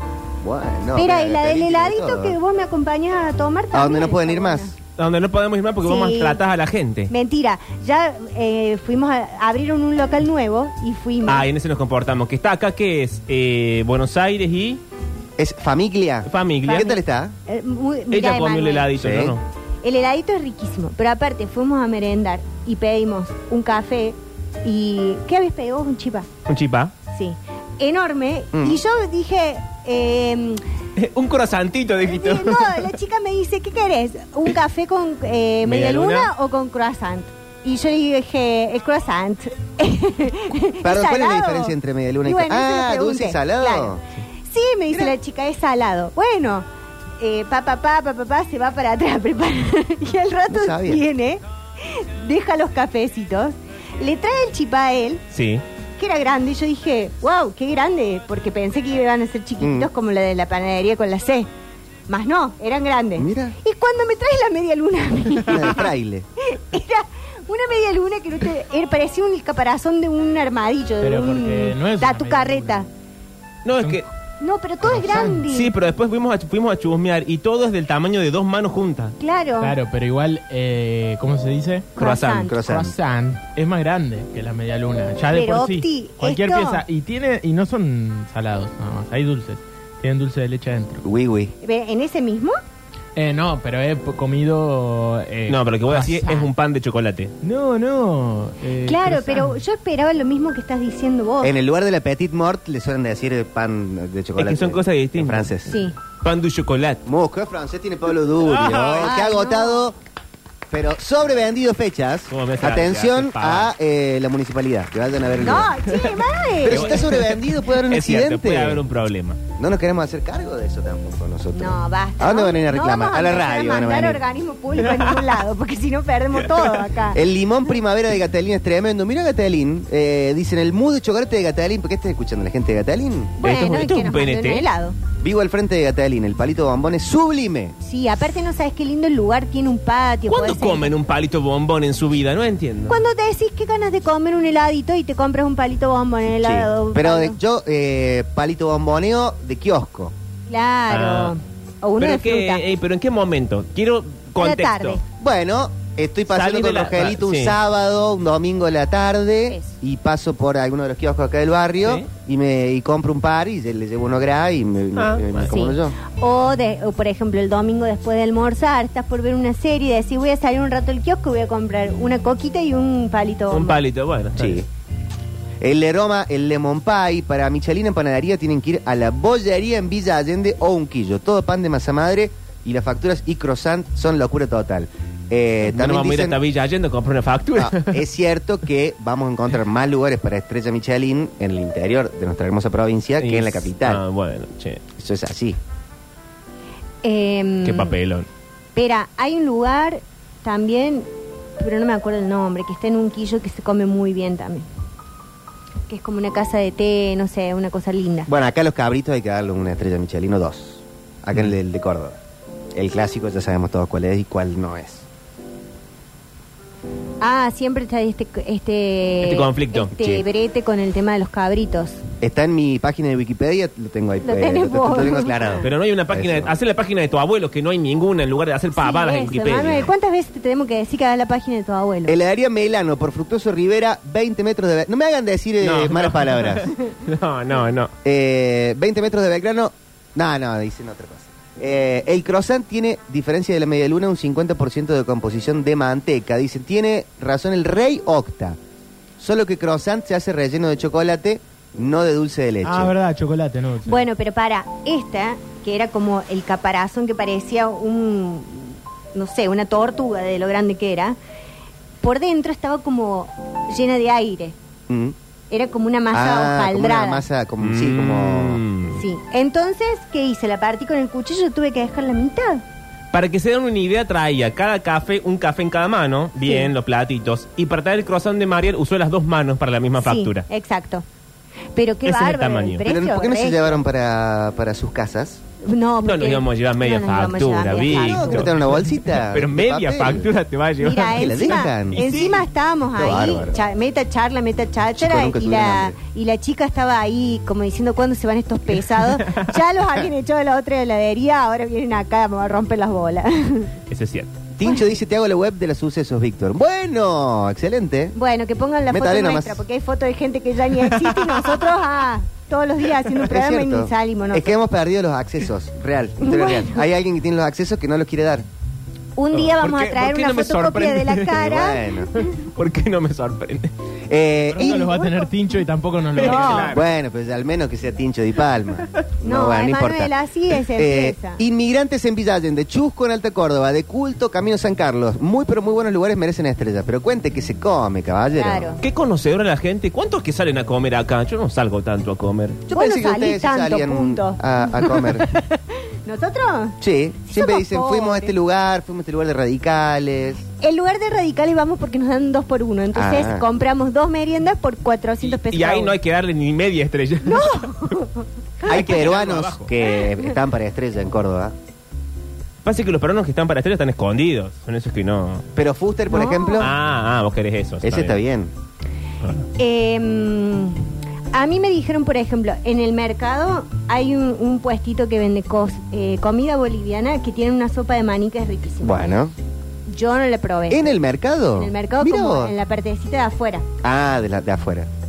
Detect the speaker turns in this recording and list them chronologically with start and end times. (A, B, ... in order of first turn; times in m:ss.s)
0:00.4-0:02.4 A
0:01.0-0:04.8 B
0:03.7-0:04.7 A
0:05.0-0:07.1 C
0:05.8-0:06.4 B
0:07.1-0:11.5 B
0:11.3-0:14.8 C
0:15.4-0:17.4 A
0:16.3-0:16.9 C
0:16.7-0:18.9 B
0:18.1-0:19.4 C
0:19.0-0:19.4 A
0:19.8-0:26.3 B
0:26.5-0:26.9 C
0:27.1-0:30.6 B
0:28.5-0:28.8 A
0:31.0-0:33.0 C
0:32.0-0:46.7 B
0:35.6-0:36.3 C
0:40.8-0:44.0 A
0:47.2-0:55.2 B
0:50.5-0:51.0 A
0:55.3-0:55.6 C
0:56.0-1:01.5 B
0:59.6-0:59.9 A
1:02.1-1:05.9 B
1:03.2-1:03.6 A
1:05.5-1:06.3 A
1:06.4-1:12.9 B
1:11.0-1:12.8 D
1:13.6-1:14.1 C
1:14.4-1:15.7 B
1:14.8-1:15.4 D
1:15.3-1:19.2 C
1:19.2-1:19.8 B
1:19.6-1:21.9 D
1:22.0-1:22.5 C
1:22.0-1:22.6 B
1:22.5-1:23.0 A
1:22.6-1:31.0 D
1:25.3-1:26.8 B
1:31.0-1:31.5 A
1:31.6-1:32.6 B
1:33.2-1:36.5 D
1:35.5-1:37.3 C
1:37.4-1:39.6 D
1:38.8-1:41.5 B
1:41.4-1:45.8 A
1:44.4-1:45.5 C
1:45.7-1:46.0 B
1:46.2-1:47.0 C
1:47.1-1:50.0 A
1:48.4-1:49.1 C
1:48.9-1:49.9 B
1:50.7-1:55.9 A
1:52.3-1:53.7 C
1:55.4-1:57.0 B
1:56.6-1:58.8 A
1:56.7-1:59.4 C
1:59.6-2:04.2 A
2:01.5-2:07.2 B
2:07.1-2:13.4 A
2:13.4-2:15.0 B
2:13.4-2:14.7 C
2:15.2-2:17.8 A
2:17.8-2:20.9 B
2:20.3-2:23.0 C
2:22.9-2:27.4 B
2:26.4-2:30.1 A
2:30.5-2:32.6 B
2:30.9-2:31.3 C
2:32.0-2:35.0 C
2:34.4-2:35.0 B
2:35.2-2:46.0 A
2:36.3-2:37.6 C
2:39.5-2:39.7 B
2:45.0-2:45.6 C
2:45.4-2:53.8 B
2:53.5-2:54.6 C
2:54.4-2:54.7 A
2:55.6-3:06.4 A
3:05.7-3:08.0 C
3:07.6-3:14.0 A
3:13.2-3:14.8 C
3:15.0-3:15.6 A
3:17.0-3:18.0 B
3:17.6-3:18.3 C
3:18.8-3:21.1 B
3:21.6-3:24.7 B
3:25.9-3:28.3 B
3:28.3-3:32.2 A
3:32.7-3:35.1 A
3:37.2-3:42.0 B
3:39.2-3:39.9 C
3:39.9-3:40.2 A
3:42.2-3:46.5 A
3:44.2-3:45.6 B
3:45.6-3:49.9 C
3:48.8-3:52.2 B
3:52.1-3:56.7 A
3:55.6-3:57.9 C
3:58.0-4:08.6 A
4:09.2-4:12.9 A
4:12.6-4:14.0 D
4:13.8-4:21.2 B
4:22.0-4:24.6 B
4:24.9-4:25.2 A
4:25.5-4:27.2 B
4:26.1-4:28.6 A
4:27.6-4:29.0 C
4:29.0-4:32.6 B
4:33.1-4:40.4 C
4:36.4-4:36.7 B
4:40.0-4:41.0 B
4:41.8-4:43.8 B
4:42.0-4:42.8 C
4:42.8-4:45.4 A
4:45.6-4:48.5 B
4:46.0-4:52.4 C
4:47.7-4:50.3 A
4:50.8-5:03.7 B
4:51.1-4:52.4 A
4:52.9-4:53.6 A
4:55.0-4:56.0 A
5:03.9-5:04.4 C
5:04.6-5:08.2 A
5:08.2-5:14.5 B
5:08.9-5:09.6 A
5:10.8-5:11.7 C
5:13.2-5:18.5 A
5:16.2-5:16.8 B
5:19.2-5:22.2 B
5:19.3-5:21.5 C
5:21.3-5:22.1 A
5:22.2-5:23.7 C
5:24.1-5:25.1 A
5:24.5-5:26.8 D
5:24.7-5:25.1 B
5:26.1-5:26.8 C
5:26.2-5:26.8 B
5:26.7-5:30.1 A
5:29.2-5:31.4 B
5:30.7-5:38.8 A
5:38.4-5:38.8 B
5:38.8-5:42.6 C
5:42.7-5:45.3 A
5:42.7-5:48.3 B
5:46.8-5:50.5 A
5:50.6-5:56.0 B
5:52.9-5:53.4 A
5:55.2-5:57.9 C
5:57.2-5:58.8 B
5:58.6-5:59.7 C
5:58.7-6:01.6 A
6:02.6-6:05.4 C
6:05.6-6:06.8 A
6:06.1-6:06.7 B
6:06.6-6:08.2 C
6:07.8-6:08.5 A
6:09.6-6:19.1 B
6:18.8-6:19.3 A
6:19.9-6:20.9 B
6:20.7-6:22.5 A
6:21.6-6:23.7 B
6:23.8-6:24.9 A